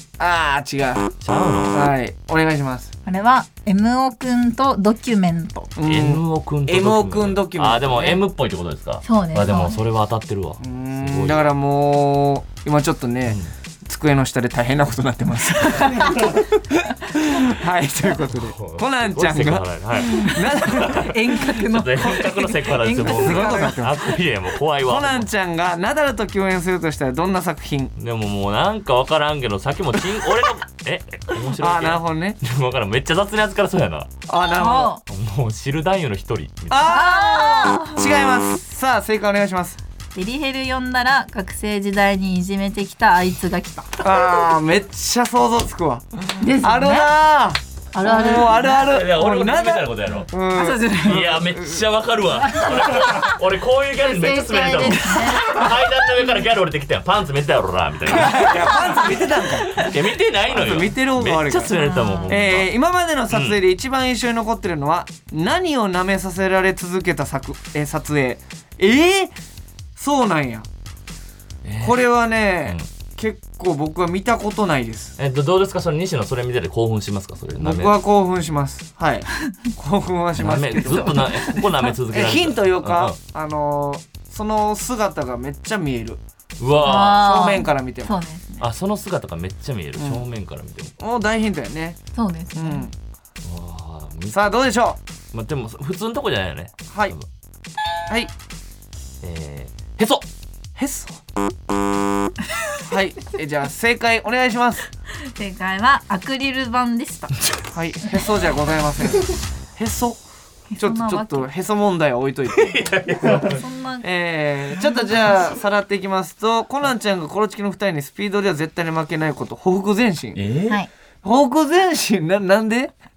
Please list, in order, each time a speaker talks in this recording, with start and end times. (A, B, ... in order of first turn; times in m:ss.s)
0:00.2-0:01.2 A
0:01.2-0:01.9 B
0:01.7-0:02.9 A
0:03.1-0:05.7 C
0:05.8-0:08.2 A
0:05.8-0:11.5 B
0:09.0-0:09.8 C
0:10.6-0:21.2 A
0:13.3-0:13.5 B
0:18.3-0:25.3 B
0:20.2-0:23.9 C
0:23.2-0:24.2 A
0:24.9-0:27.9 A
0:28.0-0:34.1 B
0:31.6-0:32.4 A
0:34.3-0:34.9 A
0:34.6-0:35.0 C
0:35.1-0:36.8 B
0:36.7-0:39.8 A
0:36.9-0:38.0 C
0:40.2-0:44.0 C
0:44.0-0:51.8 A
0:46.4-0:47.1 C
0:47.9-0:48.9 C
0:48.7-0:50.3 B
0:50.6-0:51.3 C
0:51.0-0:59.0 B
0:52.6-0:53.2 C
0:54.1-0:55.7 C
0:58.1-0:59.8 A
0:58.4-0:59.0 C
0:59.7-1:02.7 B
1:00.5-1:09.3 A
1:01.7-1:02.4 C
1:03.3-1:03.6 B
1:10.0-1:10.7 A
1:11.6-1:12.0 B
1:11.8-1:15.2 A
1:15.2-1:17.9 B
1:17.6-1:28.2 A
1:20.4-1:23.2 B
1:26.6-1:27.3 B
1:26.8-1:28.6 C
1:28.6-1:30.9 B
1:30.0-1:30.2 A
1:31.0-1:32.0 A
1:32.2-1:32.9 C
1:32.6-1:32.9 A
1:33.4-1:34.5 B
1:34.3-1:35.0 A
1:35.3-1:37.3 B
1:36.9-1:37.2 A
1:39.2-1:40.3 B
1:40.8-1:41.2 A
1:42.9-1:44.8 A
1:45.2-1:47.4 C
1:47.7-1:50.2 A
1:50.7-1:51.5 C
1:50.8-1:53.4 A
1:52.5-1:53.6 B
1:53.4-1:54.1 C
1:54.0-2:00.4 A
2:00.4-2:00.8 B
2:01.2-2:03.0 A